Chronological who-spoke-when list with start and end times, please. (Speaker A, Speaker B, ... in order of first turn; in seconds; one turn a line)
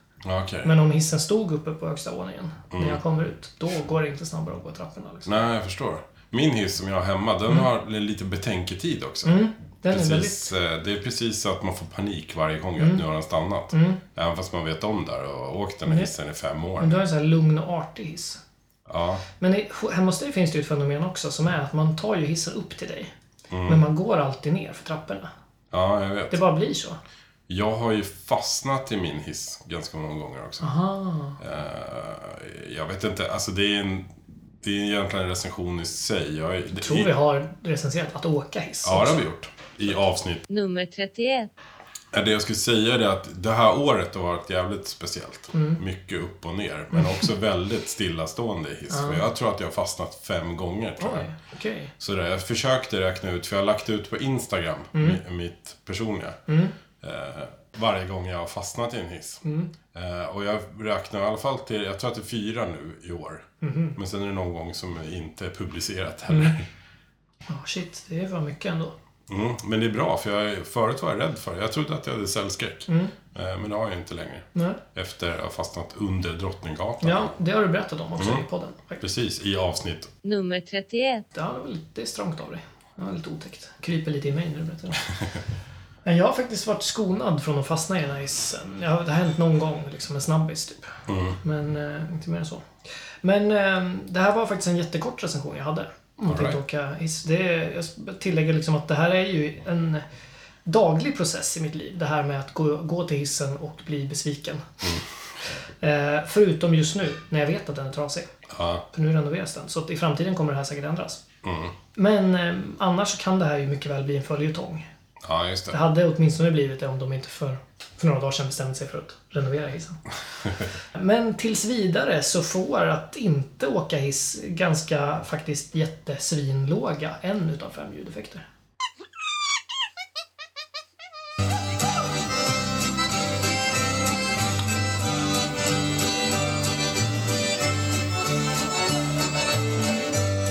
Speaker A: 0.2-0.7
Speaker B: 0.6-5.3
Speaker A: 2.7-3.0
Speaker A: 5.2-17.0
Speaker B: 9.2-10.5
Speaker B: 12.8-13.0
Speaker B: 13.7-14.0
Speaker B: 16.8-18.4
Speaker A: 18.9-19.2
Speaker B: 19.4-23.1
Speaker A: 23.5-23.8
Speaker B: 23.6-25.3
Speaker A: 25.7-26.4
Speaker B: 26.3-27.0
Speaker A: 27.5-30.7
Speaker B: 30.6-31.4
Speaker A: 31.4-37.1
Speaker B: 36.7-39.2
Speaker A: 38.8-40.4
Speaker C: 40.5-41.5
Speaker A: 42.1-51.3
Speaker B: 45.5-45.8
Speaker B: 48.9-49.2
Speaker B: 51.0-51.9
Speaker A: 52.0-56.4
Speaker B: 54.9-55.2
Speaker B: 56.5-56.7
Speaker A: 57.0-66.7
Speaker B: 59.4-59.7
Speaker B: 63.6-64.0
Speaker B: 66.3-66.5
Speaker B: 67.5-68.9
Speaker A: 69.3-77.3
Speaker B: 72.9-73.1
Speaker B: 74.5-74.8
Speaker B: 77.0-79.0
Speaker A: 78.2-78.4
Speaker A: 79.0-80.1
Speaker C: 80.2-81.2
Speaker B: 81.3-85.0
Speaker B: 86.0-100.0
Speaker A: 91.1-91.4
Speaker A: 96.3-96.6
Speaker B: 100.6-104.9
Speaker B: 105.8-108.3
Speaker A: 108.5-108.8
Speaker B: 108.9-111.2
Speaker A: 111.4-111.7
Speaker B: 111.9-114.9
Speaker A: 115.2-115.8
Speaker B: 115.7-120.0
Speaker B: 120.9-128.4